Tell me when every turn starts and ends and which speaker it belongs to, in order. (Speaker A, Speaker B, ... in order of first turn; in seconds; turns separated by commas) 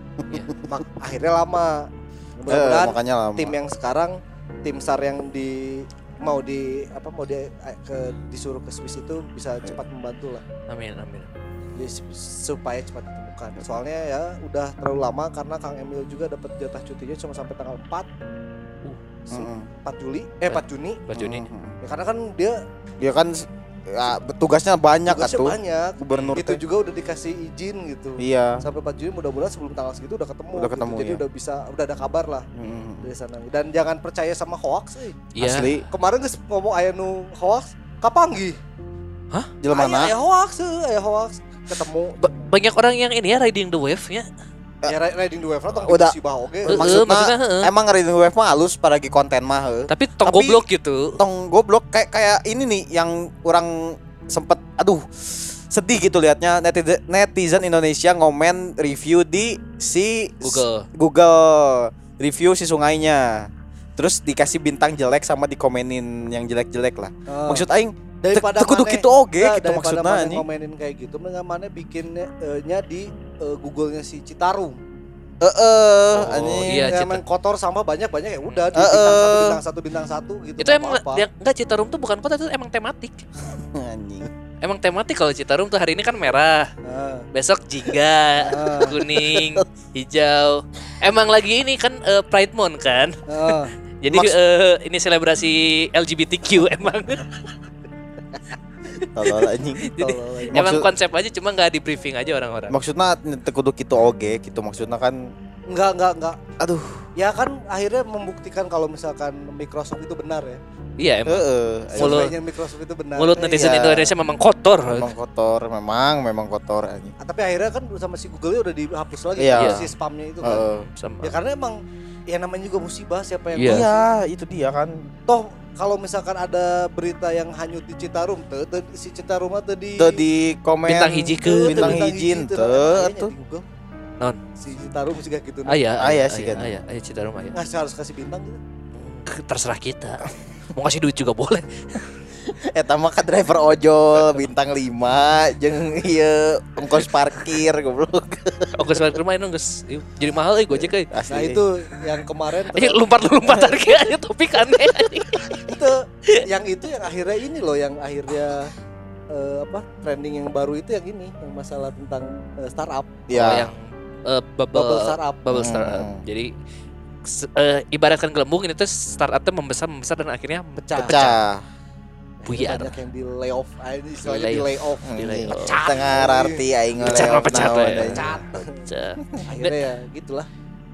Speaker A: 0.6-10.4, Speaker B: 2.5-3.5, Speaker C: 10.7-11.3, Speaker A: 11.8-18.1, Speaker A: 19.3-21.1, Speaker B: 19.3-19.7, Speaker C: 20.5-21.4, Speaker B: 21.1-21.8, Speaker A: 21.8-22.6, Speaker B: 23.0-26.6, Speaker A: 25.1-32.5, Speaker C: 26.1-26.4, Speaker B: 28.2-28.6, Speaker B: 30.5-31.2, Speaker B: 32.6-33.1, Speaker A: 33.0-35.3, Speaker C: 35.4-35.7, Speaker B: 35.4-35.9, Speaker A: 35.9-38.6, Speaker B: 39.6-40.1, Speaker A: 39.7-42.5, Speaker C: 42.2-44.3, Speaker A: 44.9-47.0, Speaker B: 45.9-50.6, Speaker C: 46.7-47.7, Speaker C: 49.9-51.2, Speaker B: 51.2-70.4, Speaker C: 60.4-60.9, Speaker A: 67.3-67.7, Speaker A: 68.2-74.8, Speaker B: 75.4-76.8, Speaker A: 76.2-81.2, Speaker C: 76.7-77.2, Speaker B: 78.7-79.6, Speaker C: 80.6-83.3, Speaker B: 83.5-84.3, Speaker C: 84.6-86.7, Speaker A: 86.8-87.3, Speaker C: 87.3-97.5, Speaker A: 88.4-89.0, Speaker B: 89.0-89.6, Speaker A: 93.3-93.7, Speaker B: 94.1-94.3, Speaker B: 99.1-99.9, Speaker C: 99.2-102.8, Speaker A: 100.0-100.7, Speaker B: 100.5-100.9, Speaker B: 102.7-105.2, Speaker A: 105.7-106.4, Speaker B: 106.6-107.0, Speaker A: 107.2-110.6, Speaker C: 111.0-111.4, Speaker B: 111.3-112.3, Speaker A: 112.0-113.8, Speaker C: 112.0-112.3, Speaker C: 113.2-115.1, Speaker B: 113.4-114.1, Speaker B: 114.9-117.1, Speaker A: 117.2-120.6, Speaker B: 119.4-119.8, Speaker C: 119.6-119.9, Speaker B: 120.4-120.9, Speaker C: 120.5-121.3, Speaker A: 121.2-121.8, Speaker A: 122.3-123.9, Speaker C: 123.6-123.8, Speaker B: 123.7-125.0, Speaker A: 125.3-130.2, Speaker B: 130.0-133.3, Speaker C: 130.9-132.0, Speaker A: 131.5-133.6, Speaker A: 134.6-135.8, Speaker C: 135.7-137.6, Speaker B: 136.0-136.8, Speaker A: 137.6-138.6, Speaker C: 138.9-141.8, Speaker B: 142.5-149.1, Speaker C: 148.8-151.1, Speaker B: 150.7-151.6, Speaker A: 151.3-153.0, Speaker C: 152.7-155.7, Speaker A: 155.7-158.7, Speaker A: 159.3-163.2, Speaker B: 163.3-163.7, Speaker C: 163.3-166.5, Speaker A: 164.7-165.5, Speaker B: 165.5-166.2, Speaker C: 167.2-171.4, Speaker A: 170.8-171.2, Speaker B: 171.0-171.6, Speaker A: 172.4-178.8, Speaker C: 172.5-173.0, Speaker C: 174.2-176.1, Speaker B: 175.1-178.3, Speaker C: 177.0-179.8, Speaker A: 179.5-180.5